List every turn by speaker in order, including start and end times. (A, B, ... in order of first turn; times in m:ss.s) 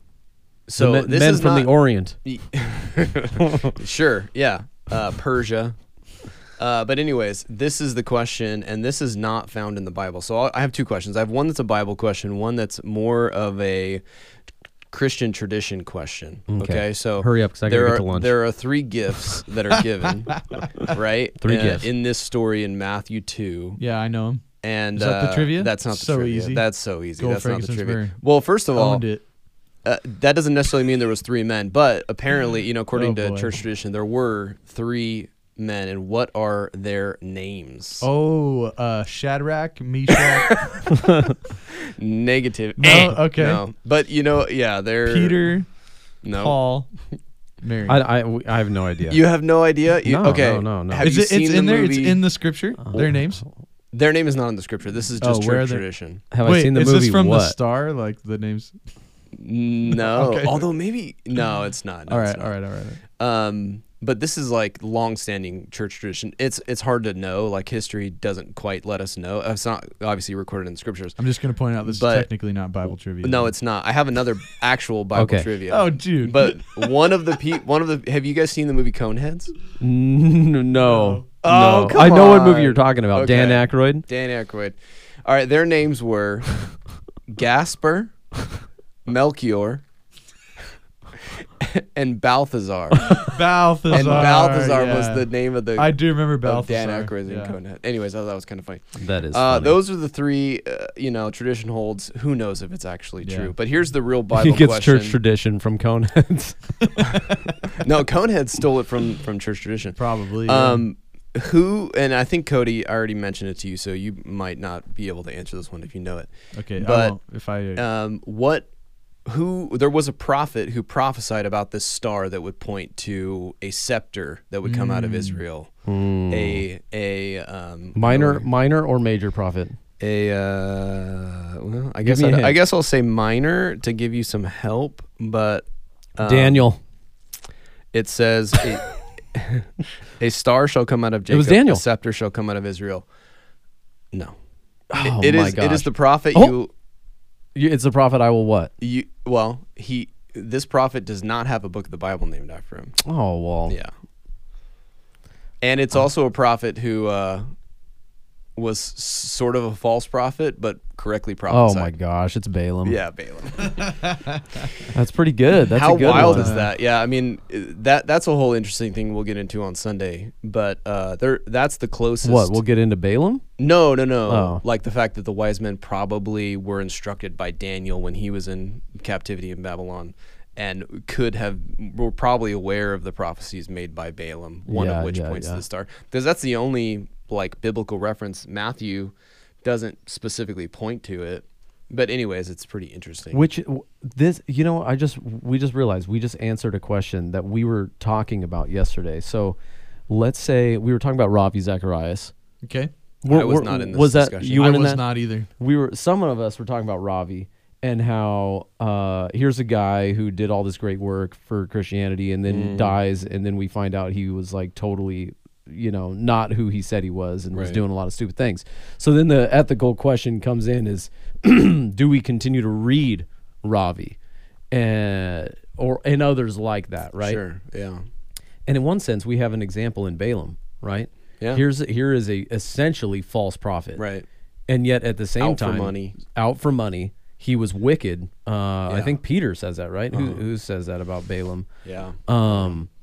0:00.7-0:01.7 A
0:00.8-0:02.2 B
0:02.2-0:05.8 A
0:03.4-0:03.7 B
0:06.6-0:14.0 A
0:14.9-0:23.8 A
0:16.5-0:18.3 B
0:21.4-0:21.9 B
0:23.8-0:26.6 C
0:24.6-0:29.0 A
0:27.2-0:28.2 C
0:28.7-0:29.2 C
0:29.8-0:38.1 A
0:32.9-0:33.6 C
0:38.0-0:40.7 C
0:40.3-0:40.8 A
0:40.9-0:41.3 B
0:41.8-0:45.5 A
0:42.8-0:43.6 C
0:45.0-0:45.7 C
0:46.2-0:46.6 A
0:46.3-0:46.9 C
0:47.6-0:48.0 C
0:47.9-0:49.2 B
0:49.1-0:52.2 A
0:50.0-0:51.1 B
0:51.0-0:53.4 C
0:52.8-0:53.1 B
0:53.9-0:56.2 A
0:55.2-0:55.8 C
0:56.3-0:57.6 B
0:56.4-0:58.8 C
0:59.3-1:02.5 A
0:59.9-1:00.7 C
1:02.1-1:03.0 C
1:03.2-1:11.2 A
1:11.2-1:13.5 C
1:11.8-1:12.3 A
1:13.2-1:19.5 A
1:15.1-1:15.5 B
1:15.7-1:16.9 C
1:19.8-1:24.0 B
1:20.8-1:21.2 C
1:21.4-1:26.7 A
1:27.3-1:28.1 A
1:29.0-1:29.8 A
1:31.2-1:33.3 A
1:33.0-1:37.6 C
1:33.9-1:45.2 A
1:33.9-1:34.2 B
1:39.0-1:39.8 B
1:43.2-1:43.5 C
1:44.3-1:47.4 B
1:47.1-1:57.2 A
1:50.0-1:50.8 C
1:56.5-1:57.8 C
1:57.8-1:58.7 A
1:59.2-2:05.7 A
2:04.6-2:05.4 C
2:05.8-2:06.6 B
2:06.3-2:08.5 A
2:07.9-2:09.8 B
2:10.0-2:15.6 A
2:12.0-2:12.6 B
2:16.2-2:16.7 A
2:16.2-2:16.8 B
2:17.9-2:23.0 A
2:21.3-2:21.8 B
2:24.9-2:26.5 B
2:25.0-2:26.7 A
2:27.5-2:28.7 B
2:28.8-2:33.0 A
2:33.0-2:33.8 B
2:35.6-2:37.5 A
2:38.6-2:41.9 A
2:41.5-2:43.0 B
2:42.8-2:43.9 A
2:43.8-2:44.6 C
2:44.9-2:46.6 B
2:45.7-2:52.6 A
2:46.0-2:46.7 C
2:52.2-2:53.4 B
2:53.6-3:09.1 A
2:54.3-2:54.6 B
3:04.7-3:05.6 B
3:09.6-3:13.4 A
3:13.3-3:19.6 B
3:20.1-3:22.3 B
3:22.6-3:22.9 C
3:23.2-3:25.0 B
3:23.3-3:24.7 A
3:24.6-3:25.5 C
3:25.6-3:44.2 B
3:32.5-3:33.0 A
3:37.5-3:37.8 A
3:44.7-3:47.4 B
3:47.2-3:48.0 A
3:48.7-3:54.0 B
3:54.0-3:54.2 A
3:54.7-4:01.7 B
3:55.4-3:56.2 A
3:58.9-3:59.2 A
4:00.1-4:00.4 A
4:01.8-4:02.8 A
4:02.3-4:02.9 B